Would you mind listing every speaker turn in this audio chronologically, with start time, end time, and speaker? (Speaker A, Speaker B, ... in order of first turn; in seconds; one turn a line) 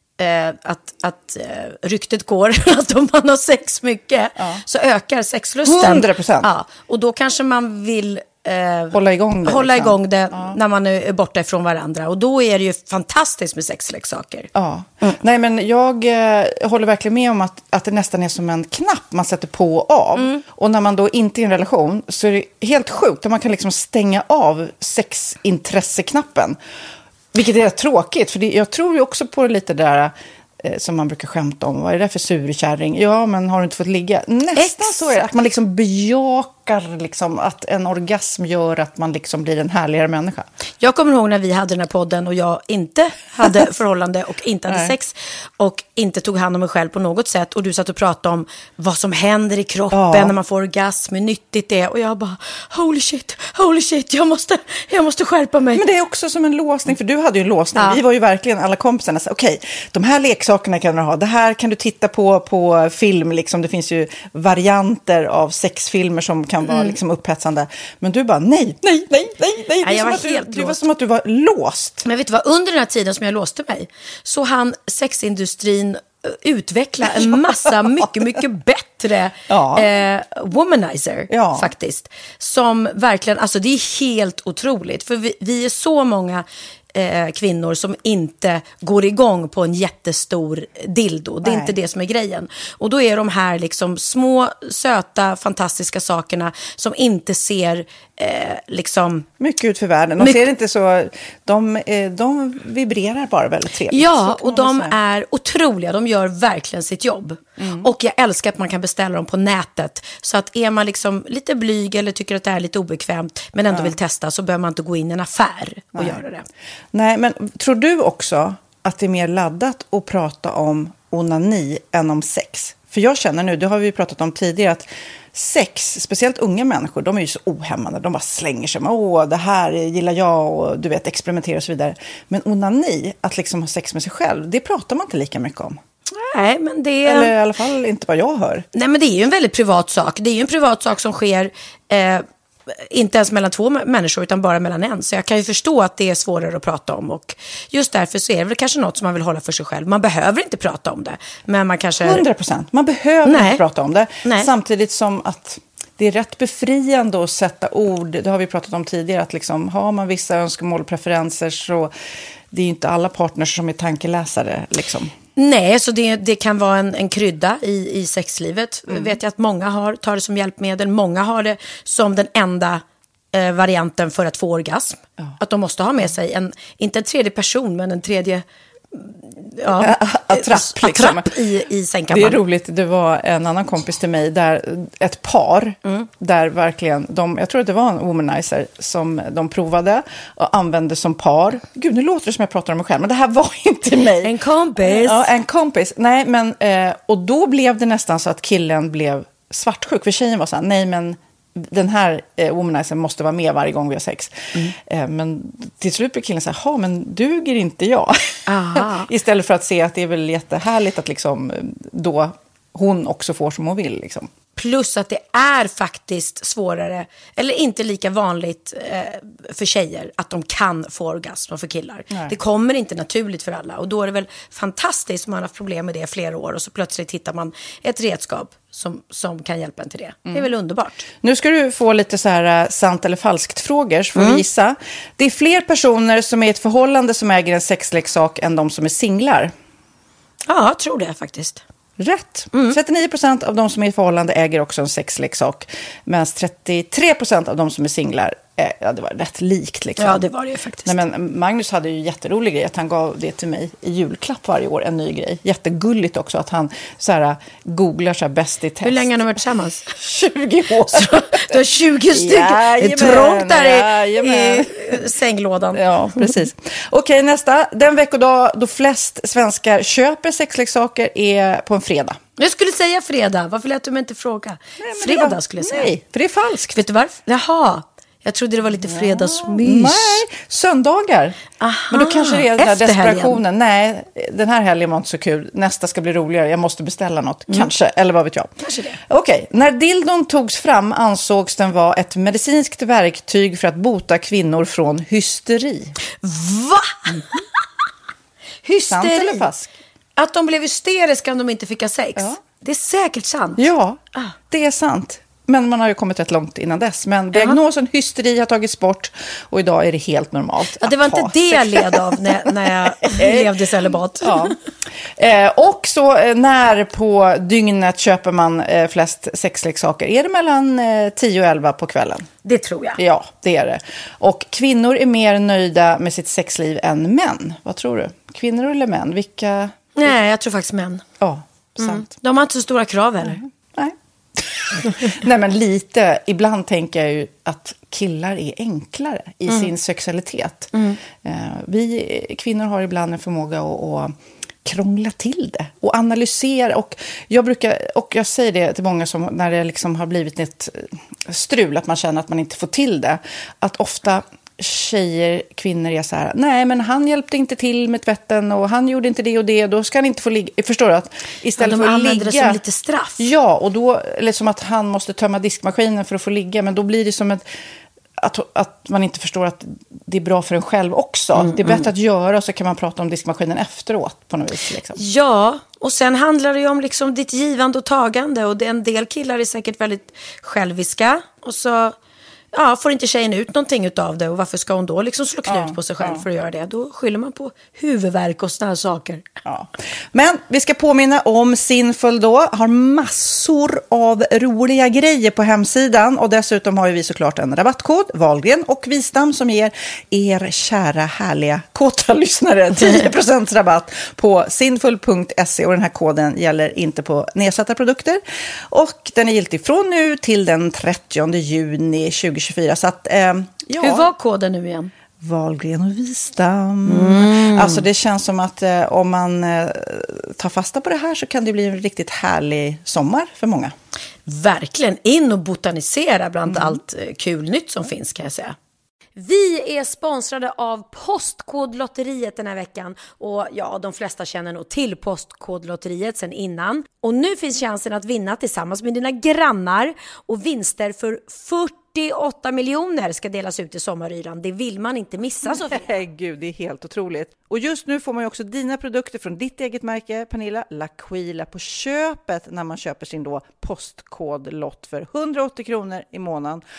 Speaker A: 0.2-8.9
Speaker B: 4.4-4.6
Speaker B: 5.6-6.5
Speaker B: 8.9-10.6
Speaker A: 9.5-14.5
Speaker B: 14.5-26.6
Speaker B: 27.3-40.5
Speaker A: 34.6-35.1
Speaker A: 40.8-55.8
Speaker B: 44.7-44.9
Speaker B: 49.9-50.3
Speaker B: 55.7-72.1
Speaker A: 69.8-70.7
Speaker A: 72.0-86.4
Speaker B: 77.0-78.4
Speaker B: 79.5-79.9
Speaker B: 81.3-81.7
Speaker A: 86.9-99.2
Speaker B: 91.4-91.8
Speaker B: 99.4-104.9
Speaker A: 103.9-116.5
Speaker B: 107.6-107.9
Speaker B: 115.9-116.2
Speaker B: 116.9-135.8
Speaker A: 136.2-137.3
Speaker B: 137.0-138.7
Speaker A: 138.7-142.2
Speaker A: 142.9-152.2
Speaker B: 152.0-161.9
Speaker A: 153.3-153.6
Speaker B: 162.5-165.1
Speaker A: 165.3-172.8
Speaker B: 168.9-169.2
Speaker A: 173.3-182.4
Speaker B: 179.7-181.3
Speaker B: 182.1-194.3
Speaker A: 194.2-195.2
Speaker B: 194.8-214.3
Speaker A: 208.5-209.1
Speaker A: 214.6-231.0
Speaker B: 230.2-230.5
Speaker B: 231.2-239.5
Speaker A: 234.2-234.4
Speaker A: 240.5-241.6
Speaker B: 242.0-250.3
Speaker A: 250.0-250.9
Speaker B: 250.8-259.1
Speaker A: 258.8-259.8
Speaker B: 259.9-265.1
Speaker A: 260.9-266.3
Speaker B: 265.7-272.2
Speaker A: 272.4-275.9
Speaker B: 274.8-276.8
Speaker A: 276.7-280.2
Speaker B: 278.8-281.4
Speaker A: 281.6-283.4
Speaker B: 281.9-295.9
Speaker A: 288.6-289.0
Speaker A: 296.2-297.2
Speaker A: 298.6-299.4
Speaker B: 298.9-299.7
Speaker A: 300.2-303.6
Speaker B: 303.6-322.3
Speaker A: 310.8-314.5
Speaker A: 322.4-323.0
Speaker B: 323.0-330.1
Speaker A: 329.9-331.0
Speaker B: 331.2-332.1
Speaker A: 331.8-333.4
Speaker B: 333.2-344.1
Speaker A: 340.7-341.0
Speaker B: 344.6-362.6
Speaker A: 361.6-363.2
Speaker B: 363.2-367.5
Speaker B: 368.2-375.0
Speaker A: 371.4-371.8
Speaker A: 374.9-381.9
Speaker A: 382.5-389.2
Speaker B: 385.4-386.2
Speaker B: 389.4-414.1
Speaker A: 413.8-414.9
Speaker B: 415.2-423.7
Speaker A: 416.8-417.8
Speaker A: 424.2-428.6
Speaker B: 426.5-426.8
Speaker A: 429.1-445.8
Speaker B: 445.4-456.6